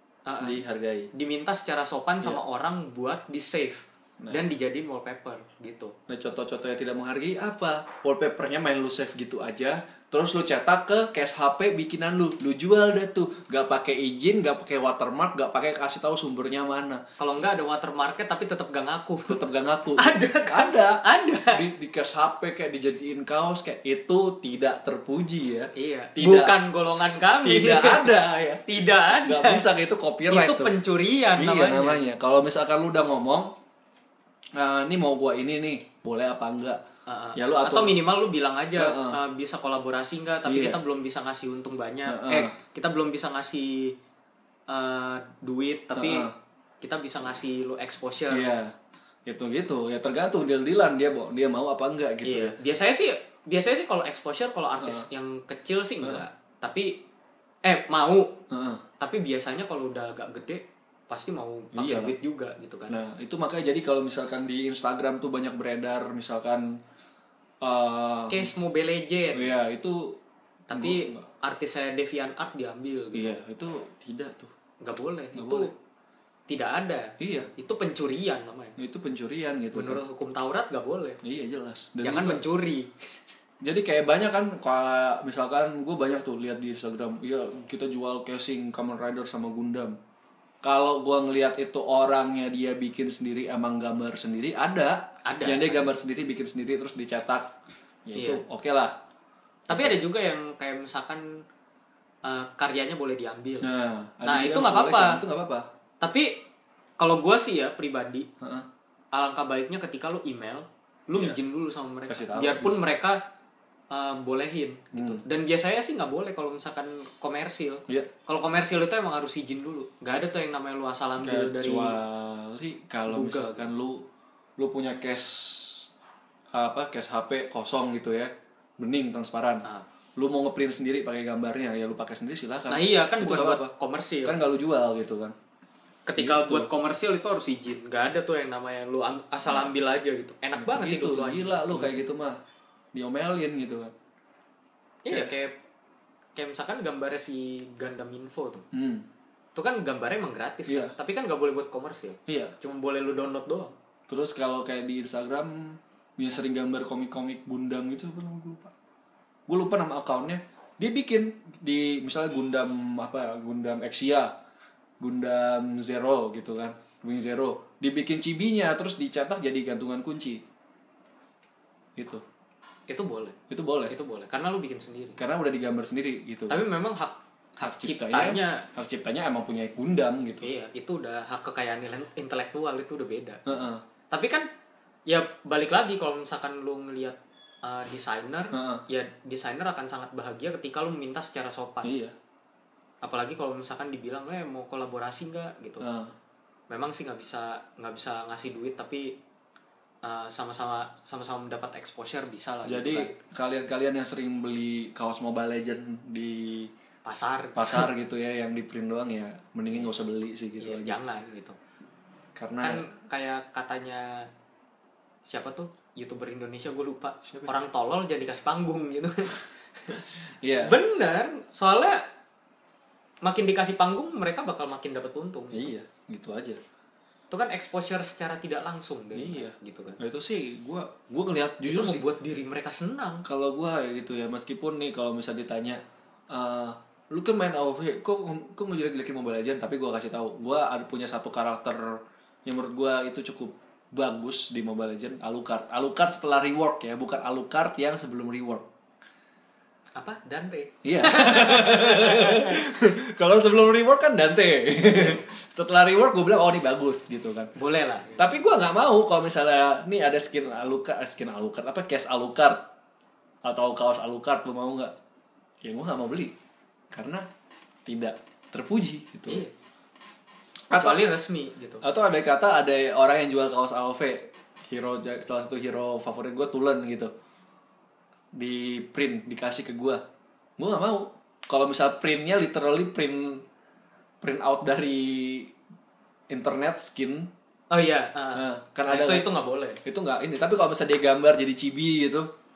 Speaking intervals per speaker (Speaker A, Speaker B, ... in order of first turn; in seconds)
Speaker A: 0.3-0.6, 1.1-5.9, 17.2-19.4, 20.0-21.6, 25.7-28.1, 28.6-29.6, 30.3-32.0, 37.1-43.9, 44.7-46.3, 46.8-48.5, 52.2-57.0, 57.6-58.4, 59.0-63.0, 68.3-69.5, 70.7-73.4, 74.8-75.7, 76.5-78.8, 79.7-81.2, 82.0-82.9, 95.2-95.9, 98.1-98.4, 99.7-101.4, 102.2-103.7, 104.2-105.2, 106.0-106.4, 107.0-108.3, 109.1-113.2, 113.9-122.0, 123.1-123.7, 132.7-134.4, 136.1-142.0, 145.0-145.6, 146.3-148.6, 149.5-153.7, 172.9-173.4, 173.9-175.2, 176.5-178.7, 180.4-183.4, 184.1-184.5, 185.1-191.9, 193.0-195.8, 196.7-199.1, 200.0-203.1, 207.0-207.9, 210.6-211.6, 212.6-214.3, 215.3-220.0, 220.6-222.1, 223.2-225.7, 227.3-230.0, 231.7-233.2, 249.9-252.6, 257.6-258.3, 269.3-269.5, 270.7-271.8, 287.7-289.8
Speaker B: 0.4-1.1, 6.1-17.0, 19.3-26.6, 27.4-28.6, 29.1-30.8, 31.4-33.5, 34.5-36.8, 37.4-38.0, 38.8-39.2, 40.5-40.8, 42.1-42.5, 45.9-46.3, 48.3-48.7, 49.2-52.5, 54.8-55.0, 58.5-58.8, 61.7-62.1, 62.9-66.7, 67.6-68.5, 69.3-70.2, 70.7-71.2, 73.1-74.5, 75.3-75.7, 77.2-77.5, 78.8-80.0, 81.2-82.4, 83.6-90.0, 90.6-97.5, 98.0-99.0, 99.7-100.0, 103.6-105.7, 108.4-108.7, 112.1-112.8, 114.9-115.2, 121.2-124.0, 124.6-125.9, 126.5-129.7, 130.2-133.7, 134.2-135.3, 136.2-136.7, 140.6-142.4, 142.9-143.9, 145.1-145.3, 148.7-149.1, 150.7-150.9, 152.3-152.5, 154.1-158.7, 159.5-164.3, 165.0-170.4, 171.9-172.2, 173.5-173.9, 175.2-176.6, 177.6-180.5, 183.4-183.8, 188.5-188.8, 191.8-192.1, 195.8-196.1, 202.6-206.7, 207.5-211.0, 212.3-212.8, 217.2-217.5, 220.4-220.8, 225.5-226.6, 229.1-232.0, 233.2-248.7, 250.8-257.5, 258.2-262.7, 263.4-264.9, 265.6-266.3, 266.9-267.2, 267.9-269.4, 270.7-271.0, 271.8-277.1, 278.3-280.0, 280.6-283.4, 284.2-285.5, 286.3-287.3, 288.3-289.3, 289.8-292.3